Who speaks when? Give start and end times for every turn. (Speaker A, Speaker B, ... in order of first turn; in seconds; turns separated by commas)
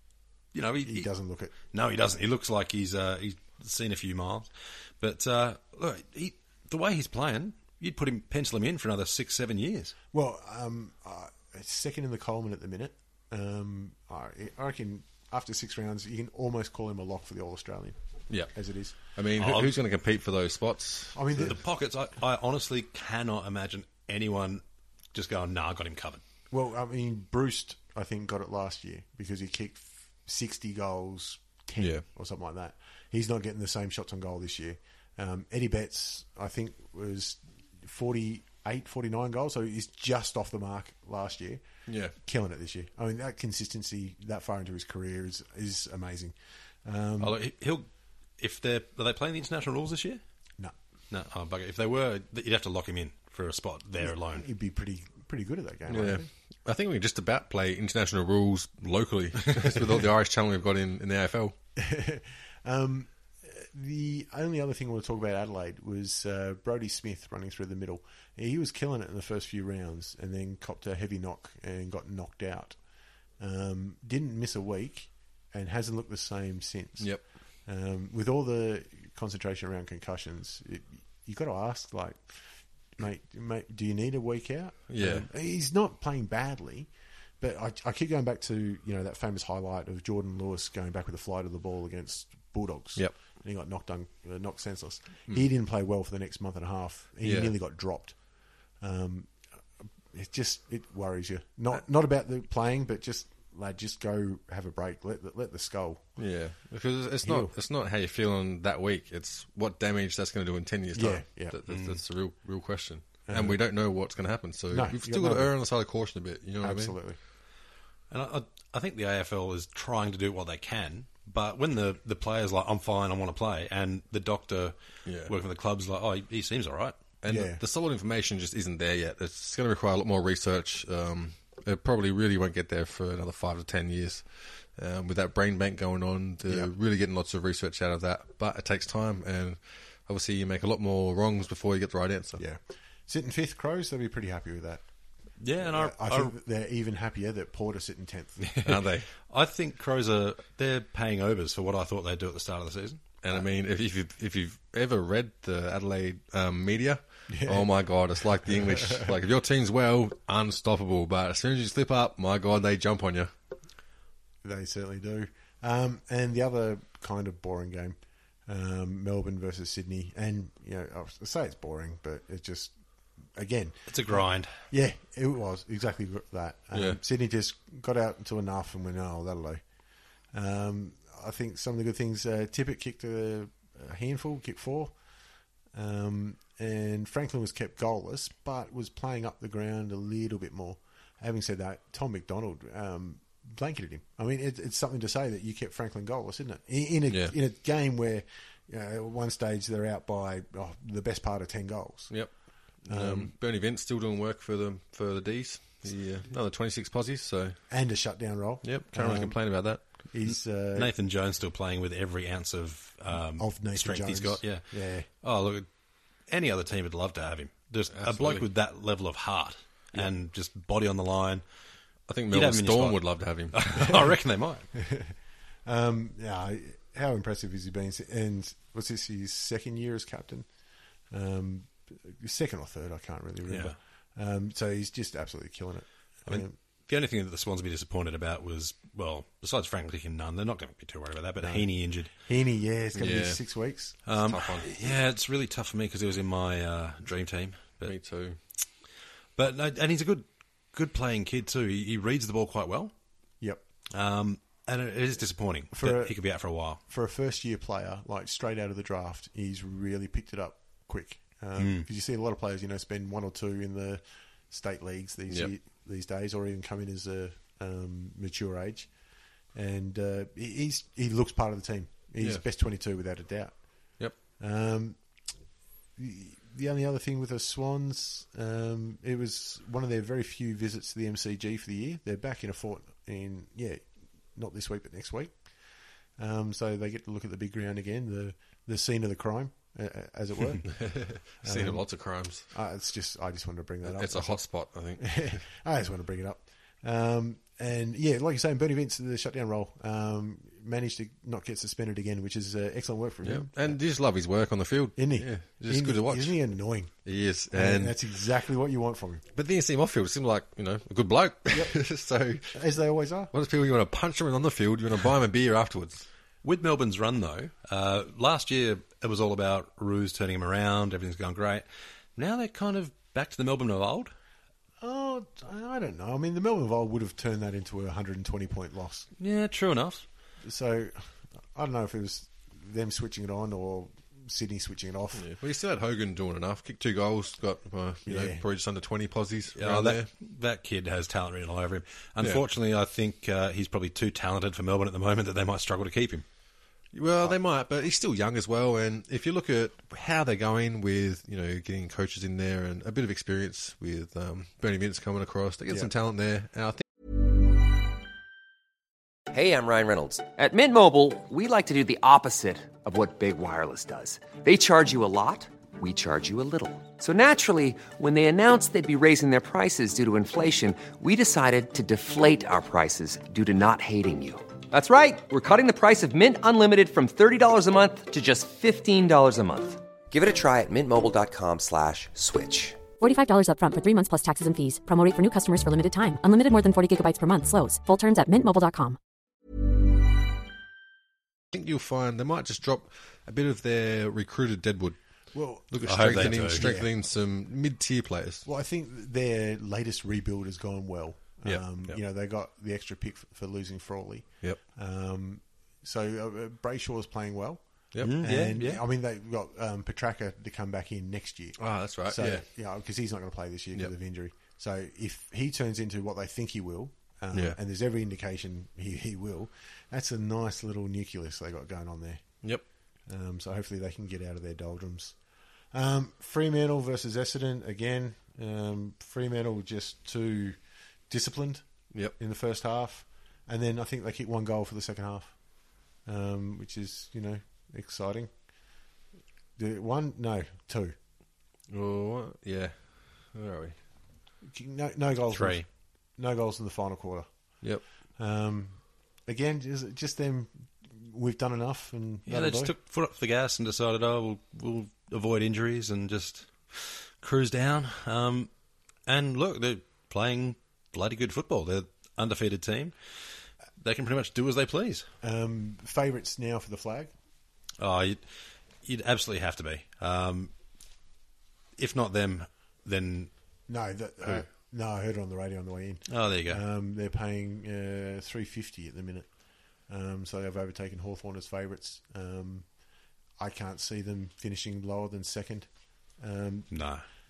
Speaker A: 0.5-4.5, Speaker B: 0.8-1.5, Speaker A: 5.0-9.9, Speaker B: 10.1-17.9, Speaker C: 18.3-21.2, Speaker B: 18.5-18.9, Speaker A: 19.4-19.7, Speaker B: 21.1-21.6, Speaker A: 21.4-24.6, Speaker A: 25.1-26.2, Speaker B: 26.5-47.4, Speaker C: 31.8-32.0, Speaker C: 41.9-42.1, Speaker A: 47.2-47.9, Speaker A: 48.4-50.2, Speaker A: 51.1-54.5, Speaker B: 54.0-56.3, Speaker C: 55.9-61.5, Speaker B: 61.8-72.8, Speaker B: 73.4-86.9, Speaker C: 84.9-85.3, Speaker B: 87.4-98.2, Speaker C: 97.2-97.5, Speaker B: 98.8-99.4, Speaker B: 100.1-106.1, Speaker C: 106.2-117.0, Speaker B: 107.2-107.5, Speaker B: 110.9-111.6, Speaker A: 111.7-112.0, Speaker B: 113.2-113.6, Speaker B: 114.7-115.5, Speaker B: 116.6-117.2, Speaker A: 118.1-127.0, Speaker C: 125.0-125.3, Speaker C: 127.2-142.4, Speaker B: 127.3-127.6, Speaker B: 142.4-144.8, Speaker A: 145.4-146.3, Speaker B: 145.6-148.5, Speaker A: 148.4-153.0, Speaker C: 148.6-149.1, Speaker C: 153.2-163.3, Speaker B: 157.3-159.1, Speaker B: 164.4-172.7, Speaker B: 173.3-179.6, Speaker A: 173.9-174.6, Speaker C: 176.7-177.0, Speaker B: 180.3-184.9, Speaker B: 185.7-202.2, Speaker C: 202.1-207.6, Speaker B: 202.8-203.3, Speaker B: 207.7-210.9, Speaker C: 208.6-209.8, Speaker A: 210.7-215.7, Speaker B: 213.4-215.1, Speaker A: 216.3-221.4, Speaker C: 217.9-218.4, Speaker C: 222.1-223.6, Speaker A: 222.3-224.7, Speaker B: 224.8-225.1, Speaker B: 225.6-230.5, Speaker B: 231.1-236.5, Speaker A: 233.5-233.7, Speaker A: 236.3-242.1, Speaker B: 241.4-244.0, Speaker C: 243.0-243.4, Speaker A: 244.1-247.9, Speaker C: 244.1-244.7, Speaker C: 247.8-248.4, Speaker A: 249.3-252.9, Speaker A: 253.9-256.8, Speaker B: 255.7-256.2, Speaker B: 256.9-268.9, Speaker A: 261.6-261.9, Speaker B: 269.5-275.0, Speaker B: 276.0-285.4, Speaker B: 286.2-291.9, Speaker C: 290.7-292.5, Speaker B: 292.5-303.7, Speaker C: 293.8-295.4, Speaker C: 303.2-306.4, Speaker B: 304.9-306.9, Speaker C: 307.0-308.0, Speaker B: 307.5-309.2, Speaker C: 309.3-312.5, Speaker B: 311.5-311.8, Speaker B: 312.5-313.3, Speaker C: 313.3-316.1, Speaker A: 316.4-321.6, Speaker A: 322.1-324.1, Speaker B: 324.8-329.1, Speaker A: 329.2-330.0, Speaker B: 330.4-335.3, Speaker C: 335.1-340.1, Speaker B: 338.1-338.4, Speaker A: 339.6-346.2, Speaker C: 346.9-356.8, Speaker D: 359.3-382.8, Speaker E: 383.0-389.0, Speaker C: 391.5-395.0, Speaker B: 395.3-396.9, Speaker C: 395.7-398.4, Speaker A: 395.8-396.7, Speaker B: 398.4-422.4, Speaker C: 401.4-402.0, Speaker C: 407.9-408.2, Speaker A: 408.0-408.8, Speaker C: 411.6-412.4, Speaker B: 423.1-425.2, Speaker B: 425.7-430.6, Speaker B: 431.1-435.4, Speaker B: 436.0-438.3, Speaker B: 439.6-440.9, Speaker C: 441.7-443.8, Speaker B: 444.5-447.3, Speaker A: 445.3-445.6, Speaker B: 448.2-452.7, Speaker A: 452.3-458.5, Speaker A: 459.1-465.1, Speaker B: 465.2-467.1, Speaker A: 467.8-468.2, Speaker A: 468.8-470.5, Speaker A: 471.8-473.3, Speaker B: 473.7-479.3, Speaker A: 476.1-476.6, Speaker B: 479.9-482.7, Speaker B: 483.4-486.8, Speaker A: 486.7-487.0